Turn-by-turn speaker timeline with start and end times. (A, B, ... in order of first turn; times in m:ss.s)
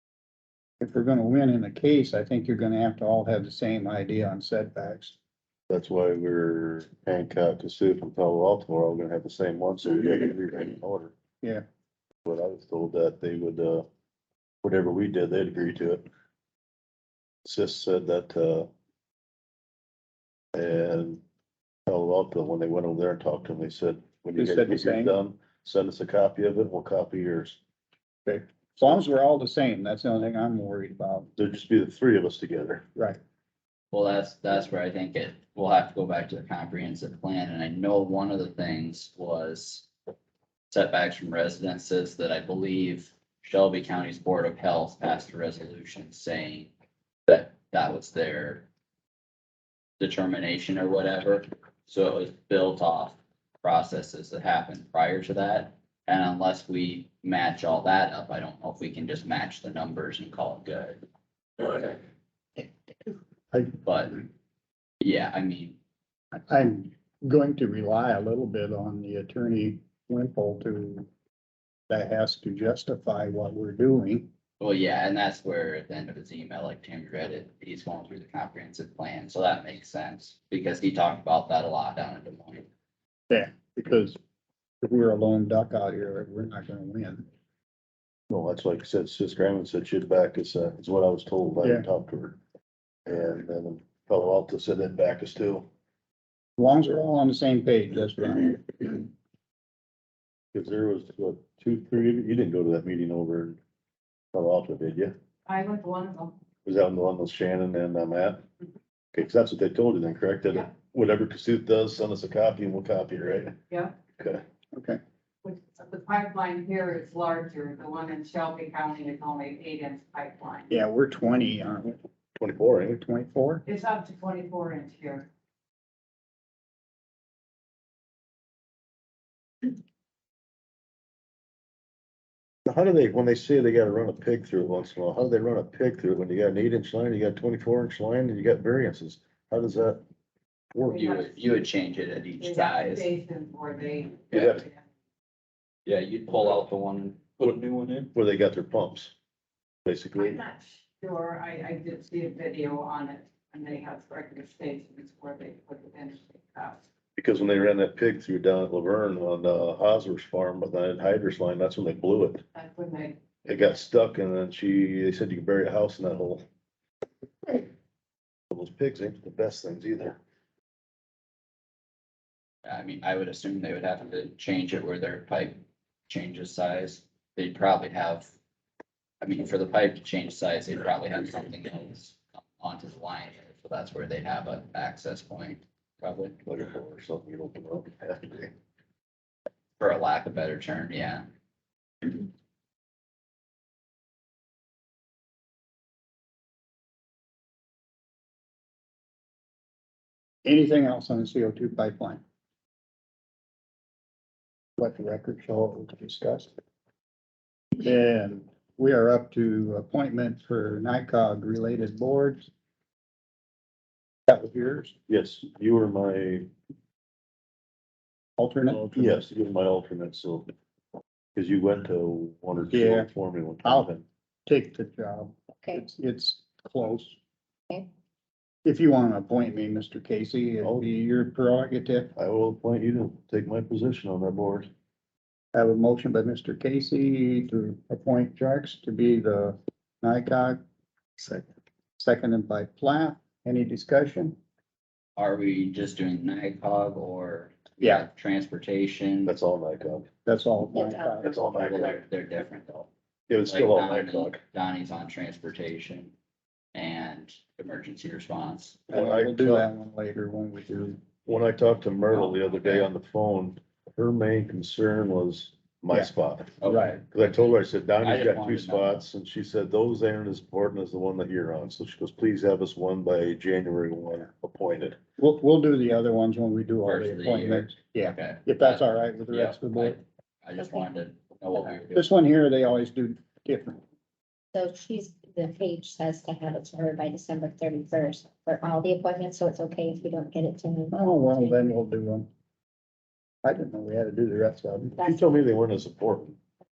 0:00.8-0:05.2 A
0:05.7-0:11.1 B
0:12.2-0:13.9 B
0:14.6-0:16.0 B
0:17.4-0:18.7 B
0:20.5-0:21.2 B
0:21.9-0:27.6 B
0:24.4-0:25.2 A
0:28.3-0:31.3 A
0:31.4-0:32.8 B
0:33.9-0:39.9 C
0:40.7-0:46.7 C
0:47.3-0:48.7 C
0:50.0-1:01.0 C
1:01.6-1:02.0 C
1:03.8-1:04.2 C
1:05.0-1:05.8 C
1:06.3-1:11.1 A
1:11.9-1:14.3 A
1:14.6-1:22.7 C
1:23.3-1:24.2 A
1:24.8-1:27.3 A
1:28.3-1:32.4 B
1:31.6-1:31.9 A
1:33.1-1:35.7 B
1:36.6-1:39.1 A
1:40.5-1:43.6 B
1:44.3-1:45.1 B
1:45.5-1:46.4 D
1:46.6-1:48.4 B
1:49.1-1:53.6 B
1:53.7-1:54.0 D
1:54.7-1:55.0 A
1:55.4-2:00.7 D
2:00.7-2:02.0 A
2:02.4-2:03.0 B
2:02.9-2:03.6 A
2:03.6-2:05.3 D
2:12.7-2:20.0 B
2:20.8-2:23.1 C
2:20.9-2:21.4 D
2:22.4-2:24.8 D
2:24.3-2:24.6 C
2:24.3-2:24.6 B
2:25.9-2:28.1 C
2:28.1-2:29.1 B
2:29.8-2:30.4 B
2:30.2-2:36.8 D
2:37.2-2:42.4 B
2:42.6-2:43.2 D
2:43.4-2:46.4 B
2:48.5-2:50.2 B
2:52.6-2:58.3 C
2:59.2-3:06.4 C
3:06.5-3:08.5 B
3:09.8-3:11.3 C
3:20.4-3:22.2 A
3:24.8-3:26.5 A
3:27.8-3:32.5 A
3:34.3-3:34.9 A
3:35.1-3:36.5 B
3:38.4-3:39.2 A
3:38.7-3:40.5 B
3:41.4-3:44.0 B
3:42.7-3:43.1 A
3:43.6-3:43.9 A
3:44.5-3:47.2 A
3:48.6-3:52.1 A
3:50.6-3:50.9 B
3:52.2-3:54.7 B
3:55.5-4:00.6 A
4:01.2-4:01.4 B
4:02.0-4:04.4 A
4:05.2-4:09.3 C
4:07.8-4:08.1 A
4:09.2-4:10.1 B
4:10.3-4:11.4 A
4:11.2-4:12.0 B
4:11.5-4:12.9 C
4:13.3-4:14.4 B
4:13.4-4:16.1 C
4:16.7-4:18.8 C
4:18.9-4:19.7 B
4:18.9-4:21.0 A
4:21.2-4:26.6 B
4:22.3-4:22.8 C
4:26.6-4:27.0 C
4:26.6-4:27.0 A
4:27.1-4:35.0 B
4:28.0-4:28.9 C
4:35.2-4:40.0 A
4:36.8-4:42.1 C
4:40.6-4:40.9 E
4:41.9-4:43.8 A
4:44.5-4:51.5 E
4:50.9-4:52.3 A
4:53.4-4:55.0 A
4:55.0-4:56.4 B